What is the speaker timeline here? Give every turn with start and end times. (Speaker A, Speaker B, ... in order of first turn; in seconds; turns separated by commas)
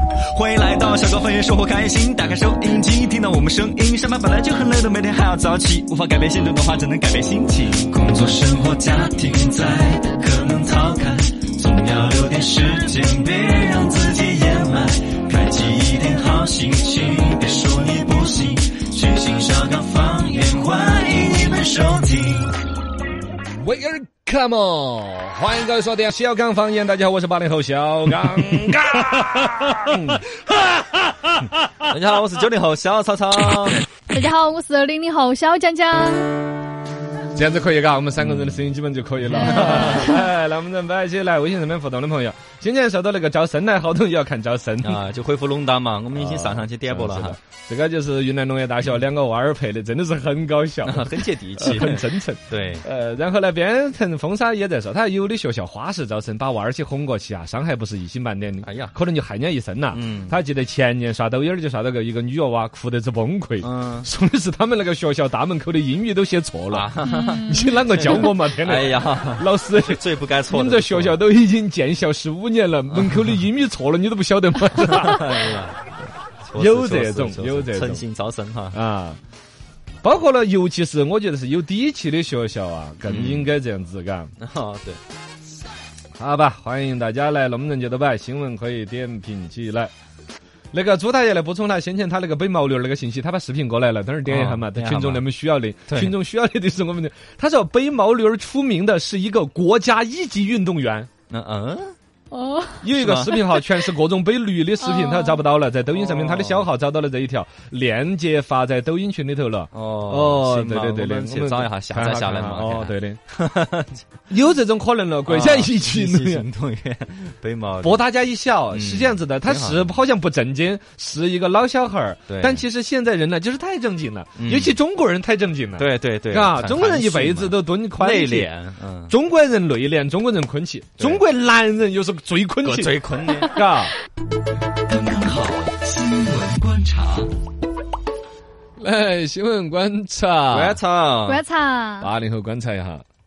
Speaker A: 0.3-22.6, Speaker B: 23.6-31.7, Speaker A: 31.8-33.8, Speaker C: 34.1-36.5, Speaker B: 37.4-45.0, Speaker A: 38.2-38.6, Speaker A: 39.4-40.0, Speaker A: 44.8-47.4, Speaker B: 46.1-75.3, Speaker A: 50.9-52.8, Speaker A: 58.6-59.0, Speaker A: 59.9-60.4, Speaker A: 63.6-64.1, Speaker A: 66.7-71.2, Speaker C: 67.1-67.8, Speaker A: 72.9-73.4, Speaker A: 74.8-75.9, Speaker A: 76.5-78.8, Speaker B: 76.5-78.0, Speaker B: 78.7-79.2, Speaker B: 80.0-84.3, Speaker A: 83.0-83.5, Speaker A: 84.4-85.0, Speaker B: 86.2-89.9, Speaker B: 90.7-101.1, Speaker A: 94.3-95.2, Speaker A: 95.9-96.2, Speaker A: 101.3-102.0, Speaker C: 102.3-103.7, Speaker B: 102.8-113.2, Speaker A: 103.0-103.5, Speaker C: 104.8-105.4, Speaker A: 105.9-106.7, Speaker A: 109.7-114.0, Speaker B: 114.3-116.5, Speaker A: 115.3-118.0, Speaker B: 117.8-128.5, Speaker A: 118.7-120.0, Speaker A: 122.3-122.6, Speaker A: 124.4-124.8, Speaker A: 125.8-129.2, Speaker B: 129.1-133.9, Speaker A: 132.7-133.5, Speaker A: 134.9-137.3, Speaker B: 138.8-140.8, Speaker A: 140.5-141.4, Speaker C: 141.3-142.1, Speaker B: 142.0-143.0